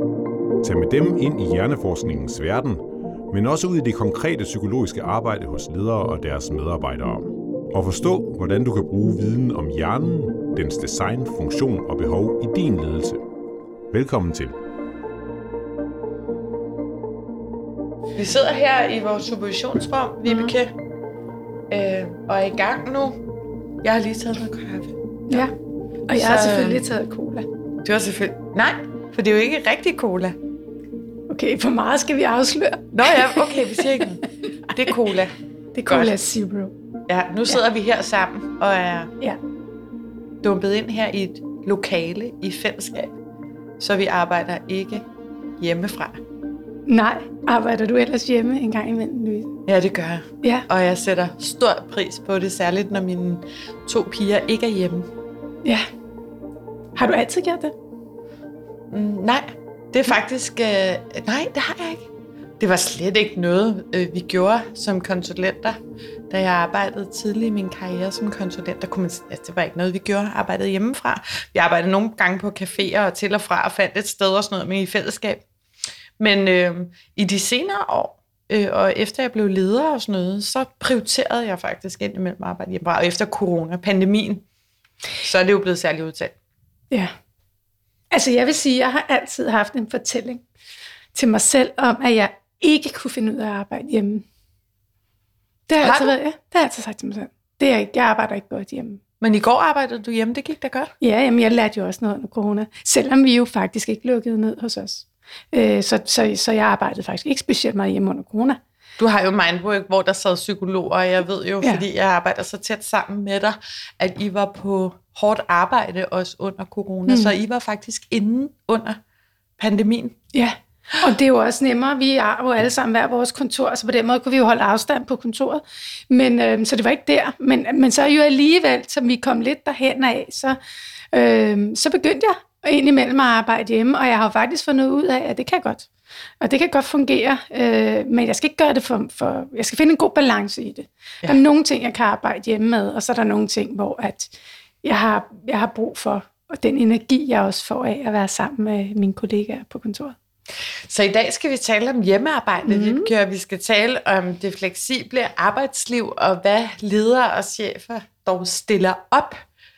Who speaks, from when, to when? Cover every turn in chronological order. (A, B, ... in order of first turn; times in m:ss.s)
0:00.6-0:13.2 A
0:13.9-0:14.6 A
0:18.2-0:20.7 B
0:21.7-0:23.2 B
0:23.8-0:25.5 B
0:26.1-0:27.5 C
0:26.1-0:26.8 B
0:27.8-0:30.4 B
0:31.3-0:34.2 C
0:32.9-0:35.3 B
0:35.7-0:36.7 C
0:35.9-0:36.2 B
0:37.1-0:39.1 B
0:40.4-0:43.2 B
0:43.8-0:45.1 B
0:45.6-0:46.2 B
0:46.9-0:49.5 C
0:49.7-0:55.1 B
0:57.0-0:57.7 C
0:58.9-1:05.8 B
1:06.3-1:15.4 B
1:16.2-1:24.4 B
1:25.2-1:26.4 B
1:28.1-1:30.4 C
1:31.1-1:34.2 C
1:35.7-1:39.0 C
1:35.8-1:36.1 B
1:39.2-1:40.9 B
1:41.0-1:48.6 C
1:49.0-1:59.0 B
1:57.1-1:57.3 C
1:59.6-2:00.2 B
2:00.3-2:10.6 C
2:11.1-2:15.9 C
2:16.4-2:30.2 C
2:30.9-2:39.4 B
2:32.7-2:33.1 C